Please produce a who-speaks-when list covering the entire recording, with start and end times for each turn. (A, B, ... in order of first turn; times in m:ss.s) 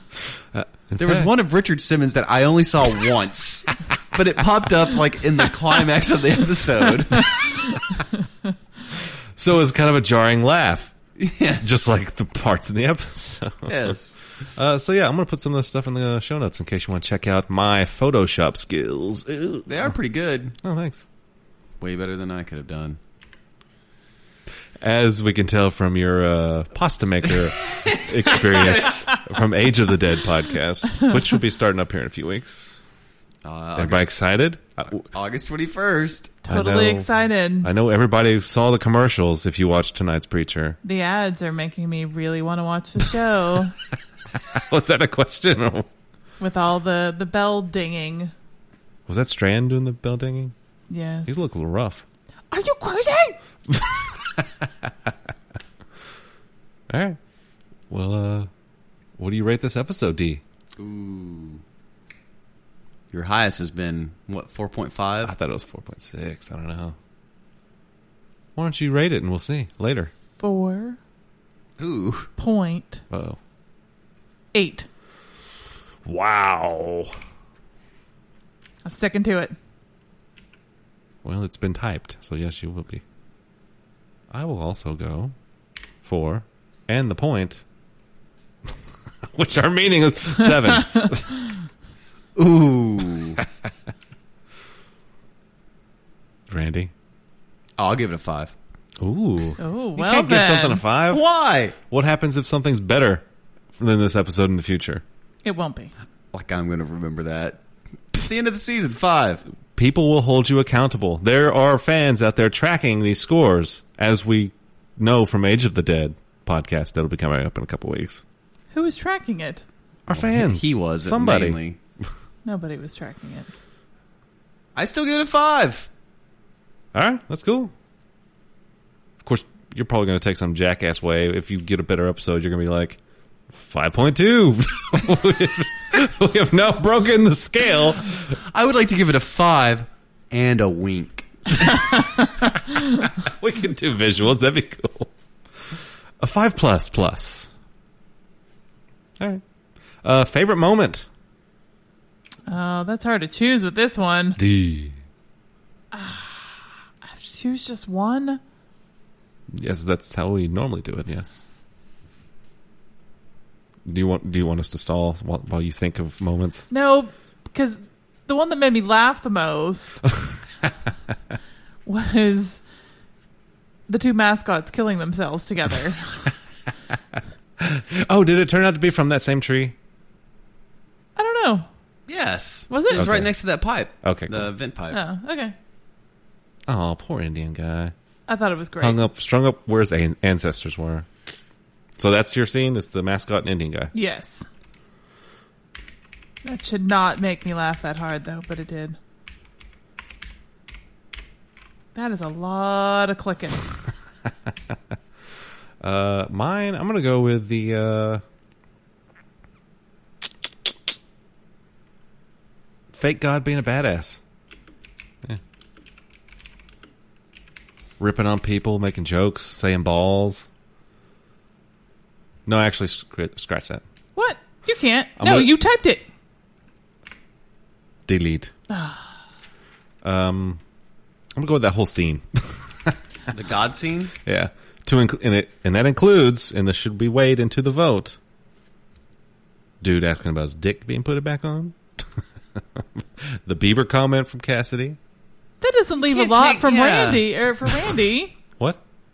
0:00.5-0:01.3 A
0:01.0-0:07.8 B
0:09.3-0:10.9 A
0:11.2-0:11.9 B
0:11.6-0:19.9 A
0:13.7-0:14.2 B
0:19.6-0:20.5 B
0:20.6-0:21.0 A
0:21.8-0:23.0 B
0:24.8-0:32.8 A
0:27.7-0:29.0 B
0:33.4-0:34.1 B
0:33.8-0:35.1 A
0:34.9-0:36.4 B
0:36.4-0:37.1 A
0:36.5-0:37.7 C
0:37.6-0:40.8 A
0:40.8-0:43.7 C
0:44.4-0:45.9 A
0:46.4-0:48.3 C
0:49.1-0:50.5 A
0:50.9-0:51.4 C
0:51.3-0:52.0 A
0:52.5-0:53.4 C
0:53.7-0:55.1 A
0:56.9-0:57.2 A
0:57.9-0:58.5 A
0:59.2-1:00.4 A
1:00.8-1:01.6 B
1:03.1-1:05.3 B
1:05.2-1:07.0 A
1:08.6-1:10.1 A
1:10.4-1:11.0 C
1:11.8-1:12.3 B
1:12.4-1:13.0 C
1:13.1-1:13.4 A
1:14.5-1:14.9 C
1:16.0-1:17.2 A
1:18.8-1:19.6 C
1:21.2-1:23.0 A
1:24.3-1:25.3 A
1:26.0-1:27.6 A
1:29.2-1:31.5 A
1:32.4-1:33.4 B
1:36.5-1:36.9 A
1:37.8-1:38.5 B
1:39.0-1:41.2 A
1:39.6-1:40.8 C
1:41.1-1:41.8 B
1:41.8-1:45.0 A
1:45.4-1:45.9 C
1:46.3-1:47.6 B
1:48.1-1:49.4 B
1:49.7-1:58.2 A
1:58.7-1:59.6 C
2:00.1-2:01.6 A
2:00.1-2:01.8 B
2:02.4-2:03.5 C
2:04.8-2:05.9 B
2:06.9-2:07.7 A
2:09.2-2:13.0 A
2:13.5-2:18.2 A
2:18.3-2:22.0 B
2:23.2-2:25.1 A
2:25.7-2:27.5 A
2:30.0-2:31.1 A
2:32.5-2:34.4 C
2:34.4-2:35.0 A
2:35.9-2:38.4 C
2:39.5-2:41.4 A
2:43.8-2:46.7 A
2:46.7-2:50.0 C
2:51.8-2:52.6 C
2:53.9-2:56.3 C
2:57.6-2:59.8 A
3:01.2-3:01.7 C
3:02.1-3:05.0 B
3:02.7-3:03.0 C
3:02.9-3:03.3 A
3:04.0-3:04.5 A
3:04.9-3:05.5 C
3:06.7-3:07.9 A
3:08.3-3:09.0 C
3:08.8-3:11.1 A
3:12.0-3:13.9 A
3:13.9-3:14.4 C
3:16.4-3:19.0 C
3:21.9-3:23.6 C
3:25.8-3:28.2 A
3:32.9-3:34.2 A
3:38.0-3:40.5 A
3:42.4-3:43.8 A
3:44.1-3:46.0 C
3:45.2-3:45.5 A
3:48.1-3:48.5 A
3:48.7-3:49.1 C
3:50.0-3:50.6 A
3:51.3-3:53.0 A
3:53.3-3:54.1 B
3:54.2-3:58.2 A
3:59.8-4:05.0 A
4:05.6-4:08.3 C
4:06.1-4:07.3 B